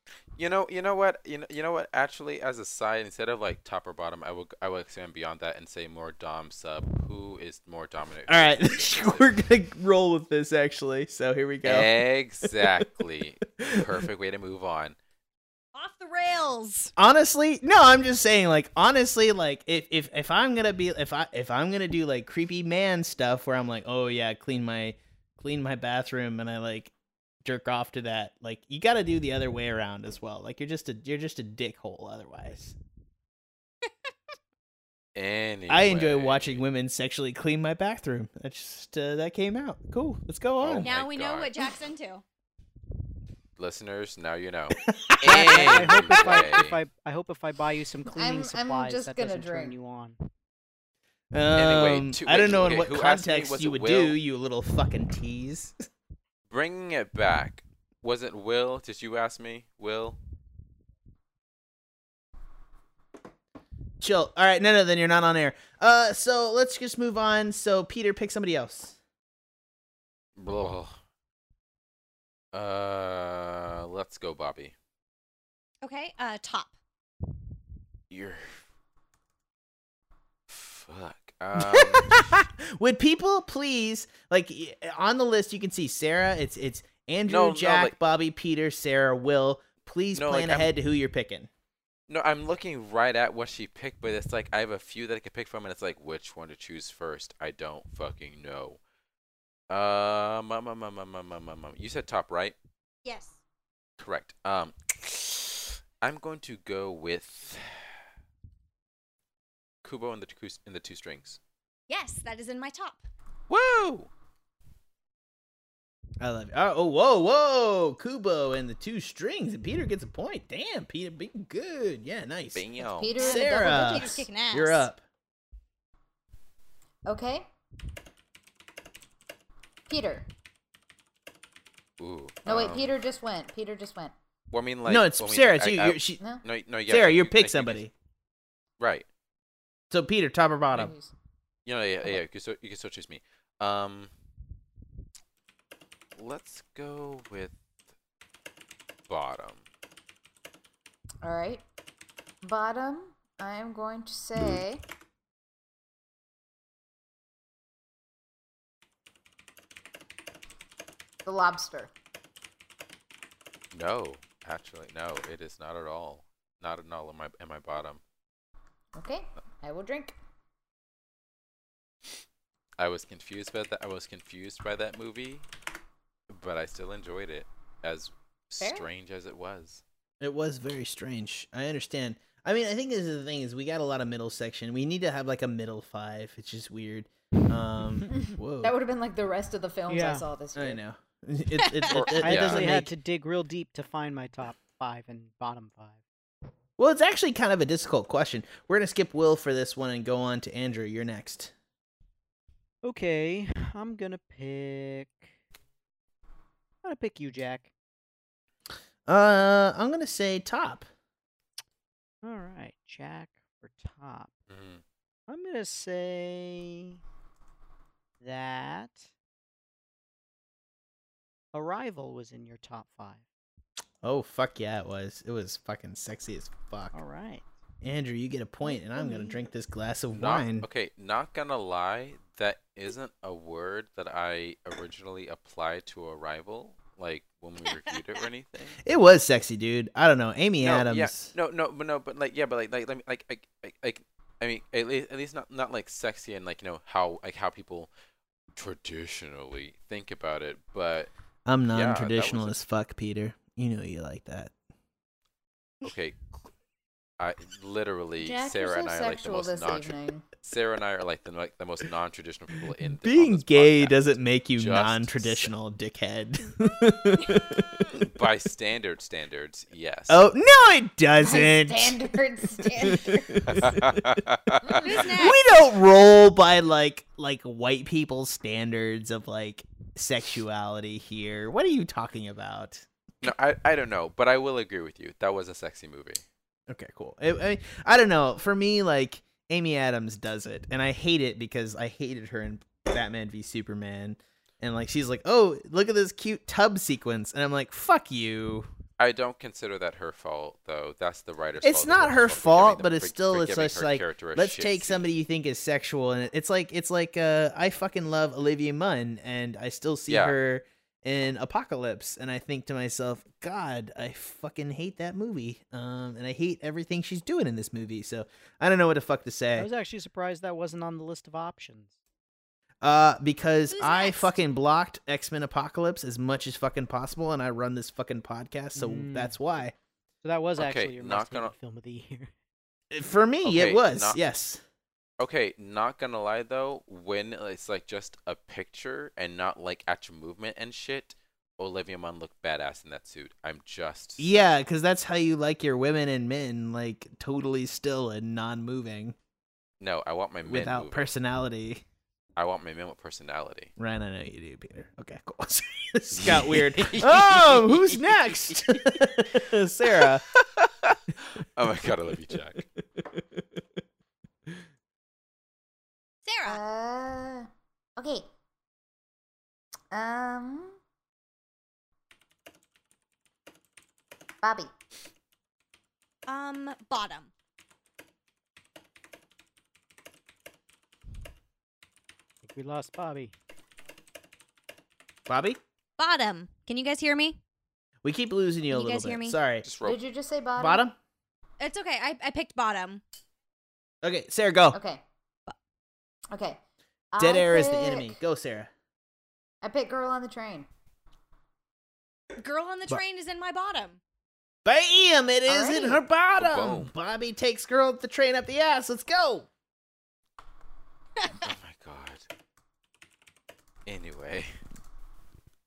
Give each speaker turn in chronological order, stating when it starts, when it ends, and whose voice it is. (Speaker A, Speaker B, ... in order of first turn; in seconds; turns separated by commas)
Speaker A: 0.4-9.3, Speaker B: 8.3-11.9, Speaker A: 11.6-15.0, Speaker B: 12.4-12.8, Speaker B: 13.6-13.9, Speaker C: 15.8-16.9, Speaker B: 17.0-26.9, Speaker B: 27.4-32.8, Speaker A: 35.1-36.6, Speaker B: 35.7-40.9, Speaker A: 40.6-41.5, Speaker C: 40.8-42.2, Speaker A: 43.6-46.8, Speaker B: 44.9-46.4, Speaker D: 45.3-50.2, Speaker E: 48.0-49.8, Speaker B: 51.3-55.8, Speaker A: 51.5-54.2, Speaker A: 56.5-60.2, Speaker B: 64.0-69.0, Speaker A: 70.4-71.0, Speaker A: 72.5-74.7, Speaker C: 75.8-76.7, Speaker A: 78.1-78.6, Speaker A: 80.5-82.4, Speaker B: 81.5-91.5, Speaker A: 87.3-88.0, Speaker A: 90.2-90.7, Speaker A: 92.1-98.8, Speaker A: 99.7-102.6, Speaker C: 103.0-103.4, Speaker A: 104.0-107.9, Speaker A: 109.8-111.4, Speaker C: 111.9-113.1, Speaker A: 113.5-114.1, Speaker B: 116.2-122.7, Speaker A: 122.5-123.2, Speaker E: 122.8-124.3, Speaker C: 123.1-124.9, Speaker B: 123.2-125.0, Speaker E: 127.1-127.5, Speaker E: 129.9-130.3, Speaker A: 132.0-133.0, Speaker E: 132.4-134.1, Speaker A: 134.5-137.8, Speaker B: 134.9-136.2, Speaker E: 136.2-136.4, Speaker B: 136.9-137.9, Speaker A: 138.8-139.1, Speaker B: 139.9-140.9, Speaker E: 140.7-141.1, Speaker A: 141.7-144.1, Speaker A: 146.2-147.6, Speaker A: 149.1-149.6, Speaker E: 151.2-151.6, Speaker E: 152.4-154.8, Speaker E: 161.2-161.9, Speaker A: 163.7-168.0, Speaker E: 168.9-170.1, Speaker A: 172.8-175.5, Speaker A: 176.3-179.8, Speaker E: 178.6-178.9, Speaker B: 180.2-188.7, Speaker E: 188.6-190.8, Speaker D: 189.9-190.3, Speaker B: 190.6-192.9, Speaker A: 191.9-192.8, Speaker D: 192.0-196.0, Speaker B: 196.8-201.5, Speaker D: 202.8-205.3, Speaker D: 206.8-207.7, Speaker B: 209.1-210.9, Speaker D: 212.2-214.3, Speaker A: 214.5-214.8, Speaker D: 215.3-217.0, Speaker D: 218.2-219.1, Speaker D: 221.5-223.2, Speaker B: 224.0-227.0, Speaker D: 226.9-227.4, Speaker B: 227.8-230.7, Speaker E: 228.7-229.4, Speaker A: 230.1-238.8, Speaker C: 237.7-237.9, Speaker B: 238.8-241.3, Speaker A: 240.6-247.9, Speaker A: 248.6-251.1, Speaker B: 251.5-254.5, Speaker A: 251.7-252.6, Speaker A: 255.8-256.2, Speaker A: 257.2-265.5, Speaker E: 258.2-260.3, Speaker B: 263.0-267.9, Speaker A: 267.9-270.3, Speaker B: 270.1-274.2, Speaker E: 271.2-273.6, Speaker A: 273.5-275.0, Speaker E: 274.7-275.1, Speaker C: 274.8-275.4, Speaker B: 274.9-282.9, Speaker A: 283.2-286.2, Speaker B: 286.7-298.7, Speaker A: 299.0-305.1, Speaker B: 301.6-319.7, Speaker A: 310.1-310.4, Speaker D: 319.6-321.9, Speaker B: 322.8-329.8, Speaker C: 323.7-324.4, Speaker D: 328.8-329.4, Speaker D: 330.2-332.3, Speaker A: 330.6-331.6, Speaker B: 332.9-334.6, Speaker A: 333.4-334.2, Speaker A: 335.2-344.4, Speaker B: 344.2-349.1, Speaker A: 349.8-351.1, Speaker B: 350.4-351.8, Speaker A: 352.4-353.7, Speaker B: 353.8-360.2, Speaker A: 356.1-359.0, Speaker A: 360.0-362.7, Speaker C: 366.2-366.6, Speaker E: 366.5-368.3, Speaker E: 369.9-370.8, Speaker E: 374.4-374.7, Speaker C: 376.3-377.3, Speaker D: 382.4-383.3, Speaker B: 385.3-385.6, Speaker C: 386.0-387.4, Speaker B: 388.0-389.7, Speaker C: 388.7-389.4, Speaker A: 389.6-390.0, Speaker E: 389.8-390.8, Speaker B: 390.6-391.0, Speaker C: 391.6-393.0, Speaker B: 394.0-394.8, Speaker E: 394.7-395.0, Speaker E: 396.3-396.6, Speaker E: 397.1-398.2, Speaker B: 397.2-398.7, Speaker E: 399.6-400.7, Speaker C: 402.4-404.0, Speaker B: 404.6-409.5, Speaker E: 405.5-406.0, Speaker A: 406.4-406.9, Speaker A: 411.3-412.3, Speaker A: 413.9-414.5